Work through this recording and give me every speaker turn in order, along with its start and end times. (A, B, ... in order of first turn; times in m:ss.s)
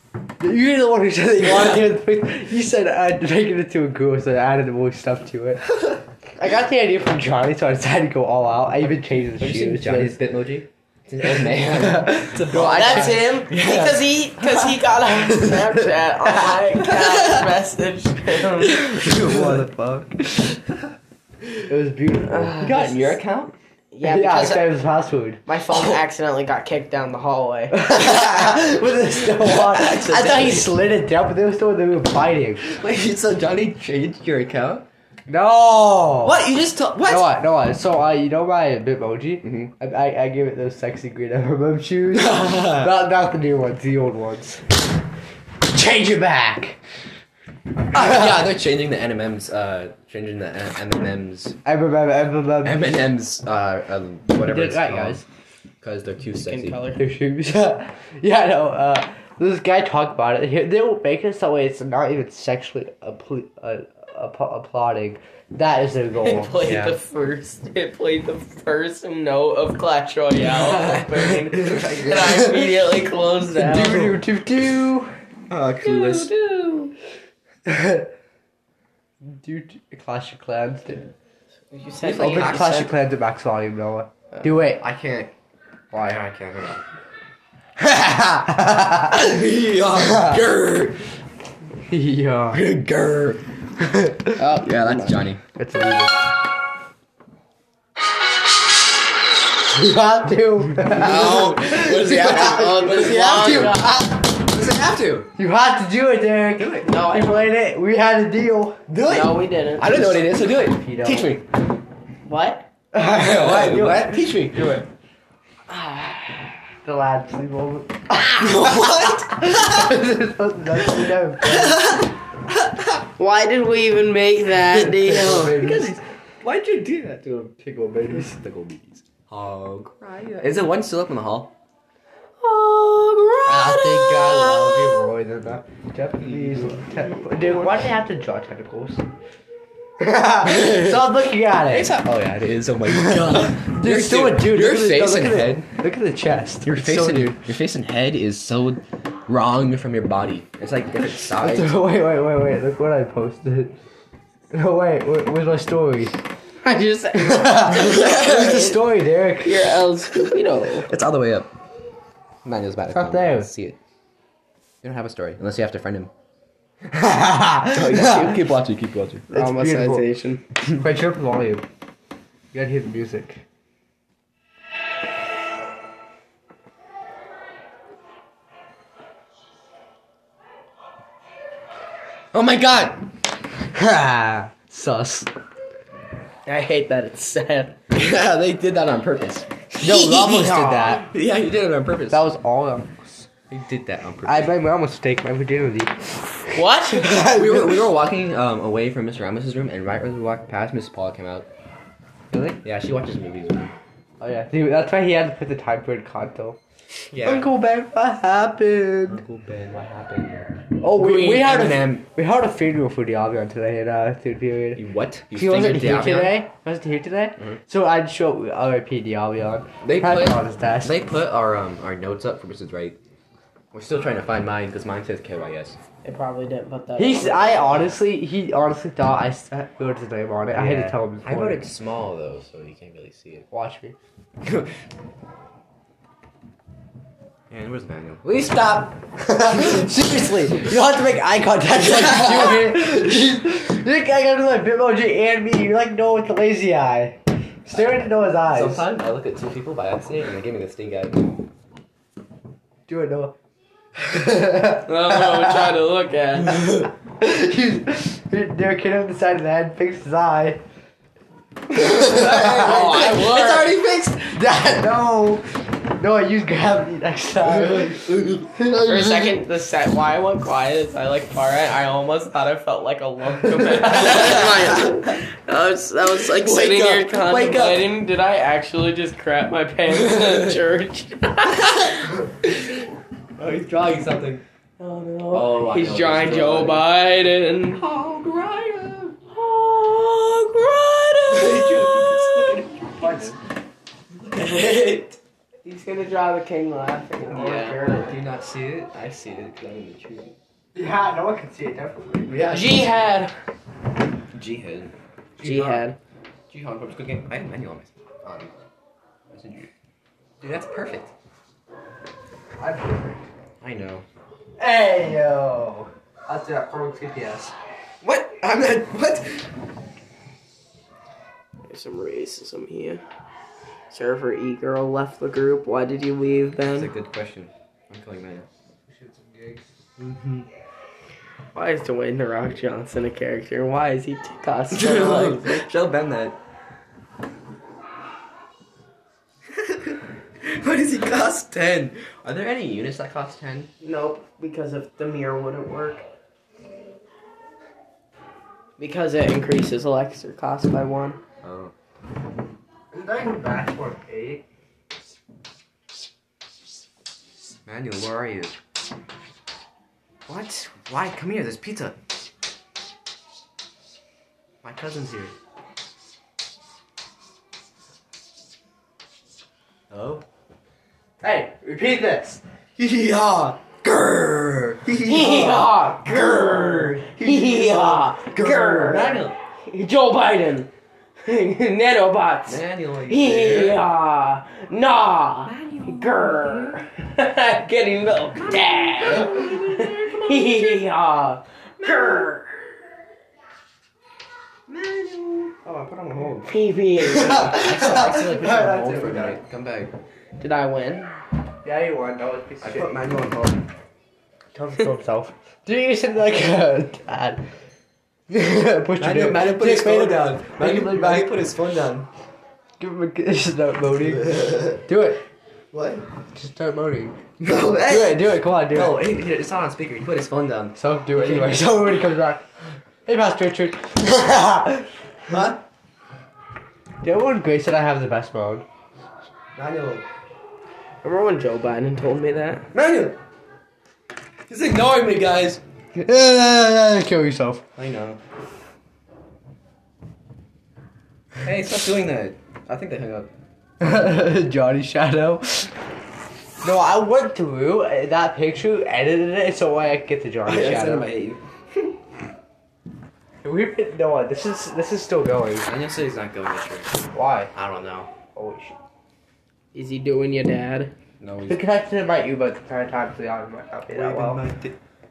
0:00.4-0:05.6 A
0:01.5-0:01.7 B
0:06.4-0:10.2 A
0:08.9-0:14.6 B
0:11.2-0:13.3 A
0:12.6-0:18.8 C
0:15.4-0:16.6 A
0:17.0-0:17.4 B
0:18.7-0:20.6 A
0:18.8-0:19.7 B
0:21.7-0:22.7 A
0:22.2-0:23.1 C
0:22.6-0:23.5 B
0:23.9-0:24.7 C
0:24.0-0:25.4 A
0:25.4-0:27.8 C
0:25.7-0:26.0 B
0:27.7-0:32.6 A
0:27.9-0:28.7 B
0:29.2-0:30.7 B
0:32.6-0:34.8 B
0:35.3-0:36.4 A
0:36.2-0:37.4 B
0:37.0-0:44.6 A
0:39.4-0:39.7 B
0:42.1-0:42.9 B
0:45.7-0:46.8 A
0:47.9-0:51.6 B
0:51.6-0:52.8 A
0:52.6-0:55.2 B
0:54.4-0:55.2 A
0:55.8-0:56.8 B
0:56.4-0:57.0 C
0:57.0-1:06.6 A
1:06.2-1:14.2 C
1:06.3-1:07.0 B
1:10.4-1:12.5 B
1:12.3-1:12.5 A
1:13.5-1:15.1 A
1:15.5-1:16.3 B
1:15.8-1:16.9 C
1:17.6-1:18.1 A
1:19.2-1:21.1 A
1:21.7-1:22.9 C
1:22.0-1:22.8 B
1:22.1-1:24.8 A
1:24.6-1:25.3 B
1:25.9-1:26.8 B
1:27.8-1:29.2 A
1:29.1-1:31.0 B
1:29.9-1:30.4 A
1:31.9-1:32.6 A
1:32.5-1:33.4 B
1:33.8-1:34.4 A
1:34.4-1:35.4 B
1:34.7-1:35.1 C
1:35.6-1:36.2 A
1:39.7-1:44.3 A
1:40.9-1:45.3 B
1:42.1-1:44.1 C
1:45.4-1:48.8 A
1:46.6-1:46.9 B
1:46.8-1:47.5 C
1:48.9-1:51.4 B
1:49.0-1:50.2 C
1:50.6-1:51.3 A
1:52.2-1:52.7 C
1:52.9-1:54.7 A
1:53.0-1:54.9 B
1:55.7-1:56.4 C
1:56.8-2:02.0 A
1:58.4-2:00.0 B
2:00.8-2:03.0 B
2:03.2-2:05.7 C
2:04.7-2:06.0 A
2:05.2-2:11.5 B
2:07.8-2:08.3 A
2:12.4-2:15.1 B
2:13.4-2:19.0 A
2:16.1-2:17.8 B
2:20.0-2:22.0 A
2:20.4-2:21.0 B
2:21.7-2:25.7 B
2:22.9-2:27.4 A
2:26.6-2:31.8 B
2:31.4-2:33.7 A
2:34.5-2:36.1 A
2:36.6-2:40.9 C
2:37.1-2:39.8 A
2:40.8-2:41.5 B
2:42.4-2:43.8 B
2:42.9-2:43.5 A
2:44.8-2:46.1 B
2:46.9-2:48.3 A
2:47.7-2:49.3 B
2:48.1-2:48.4 C
2:49.3-2:50.4 C
2:49.3-2:50.0 A
2:50.8-2:51.6 A
2:52.5-2:53.4 A
3:02.3-3:03.0 B
3:03.7-3:05.3 A
3:06.4-3:07.7 C
3:07.9-3:12.3 B
3:09.8-3:11.1 A
3:09.8-3:10.2 C
3:12.1-3:13.3 A
3:13.5-3:14.5 B
3:14.2-3:17.9 A
3:16.5-3:17.1 C
3:17.2-3:21.5 B
3:22.3-3:22.6 A
3:22.6-3:23.7 B
3:24.2-3:26.6 A
3:27.1-3:27.5 B
3:27.2-3:29.2 A
3:29.1-3:32.0 B
3:30.8-3:40.9 A
3:34.8-3:36.4 B
3:39.8-3:43.0 B
3:43.7-3:45.8 B
3:46.0-3:48.0 C
3:47.0-3:51.6 A
3:50.5-3:53.4 B
3:53.5-3:54.0 A
3:57.5-3:58.9 B
3:58.4-4:08.9 A
3:59.5-3:59.9 B
4:01.8-4:02.6 B
4:07.8-4:11.4 B
4:12.9-4:13.3 A
4:14.0-4:15.7 A
4:14.8-4:16.9 C
4:17.2-4:20.6 A
4:21.7-4:23.1 A
4:21.7-4:24.3 B
4:22.6-4:23.8 C
4:24.2-4:29.4 A
4:27.4-4:28.6 B
4:28.8-4:42.2 C
4:33.9-4:34.9 B
4:36.1-4:37.9 B
4:39.9-4:40.6 B
4:43.4-4:44.4 B
4:44.8-4:47.8 C
4:45.3-4:46.9 B
4:47.7-4:49.2 B
4:49.3-4:52.5 C
4:51.3-4:53.4 B
4:53.0-4:53.3 A
4:54.3-4:55.2 B
4:54.4-4:54.7 C
4:55.6-4:58.2 C
4:57.2-5:00.4 B
5:00.7-5:02.4 A
5:02.2-5:02.9 B
5:02.5-5:03.3 C
5:04.3-5:05.8 B
5:05.4-5:06.0 C
5:06.5-5:08.5 B
5:09.3-5:09.7 B
5:10.4-5:11.1 B
5:12.6-5:13.2 A
5:13.6-5:14.0 B
5:14.6-5:17.5 A
5:18.0-5:19.5 B
5:21.7-5:23.0 C
5:23.9-5:26.9 C
5:26.6-5:28.5 B
5:28.9-5:29.7 A
5:30.0-5:30.4 B
5:31.5-5:35.6 C
5:34.7-5:36.4 B
5:39.6-5:43.7 B
5:43.8-5:46.0 C
5:48.8-5:51.2 C
5:51.4-5:51.7 B
5:52.9-5:54.4 A
5:57.6-5:58.6 B
6:00.2-6:02.0 B
6:04.6-6:05.3 B
6:09.9-6:10.2 B
6:11.2-6:12.4 A
6:12.8-6:19.4 B
6:15.0-6:20.7 C
6:21.2-6:32.5 C
6:22.4-6:23.8 B
6:25.4-6:26.8 B
6:28.7-6:30.2 B
6:31.8-6:32.2 B
6:34.7-6:39.9 B
6:36.4-6:37.6 C
6:37.0-6:39.4 A
6:40.4-6:41.1 C
6:41.6-6:42.9 A
6:42.6-6:43.6 B
6:44.5-6:47.4 A
6:48.3-6:51.4 A
6:49.0-6:52.1 B
6:52.8-6:55.2 A
6:54.1-6:54.8 B
6:55.7-6:56.0 B
6:56.3-6:57.2 A
6:57.4-7:01.8 B
6:57.8-6:59.0 A
7:00.8-7:02.4 A
7:03.0-7:04.8 A
7:05.3-7:05.6 B
7:07.0-7:08.6 A
7:09.6-7:10.0 B
7:11.0-7:12.7 C
7:12.7-7:13.2 B
7:14.5-7:15.6 B
7:15.9-7:17.6 A
7:17.8-7:18.2 B
7:21.4-7:23.3 B
7:23.8-7:25.7 A
7:26.6-7:31.1 A
7:30.4-7:31.4 B
7:33.4-7:35.7 A
7:35.6-7:36.9 B
7:37.1-7:37.5 A
7:37.5-7:38.1 B
7:38.3-7:38.8 A
7:39.7-7:40.9 C
7:41.2-7:41.6 B
7:41.5-7:44.4 A
7:43.9-7:44.8 B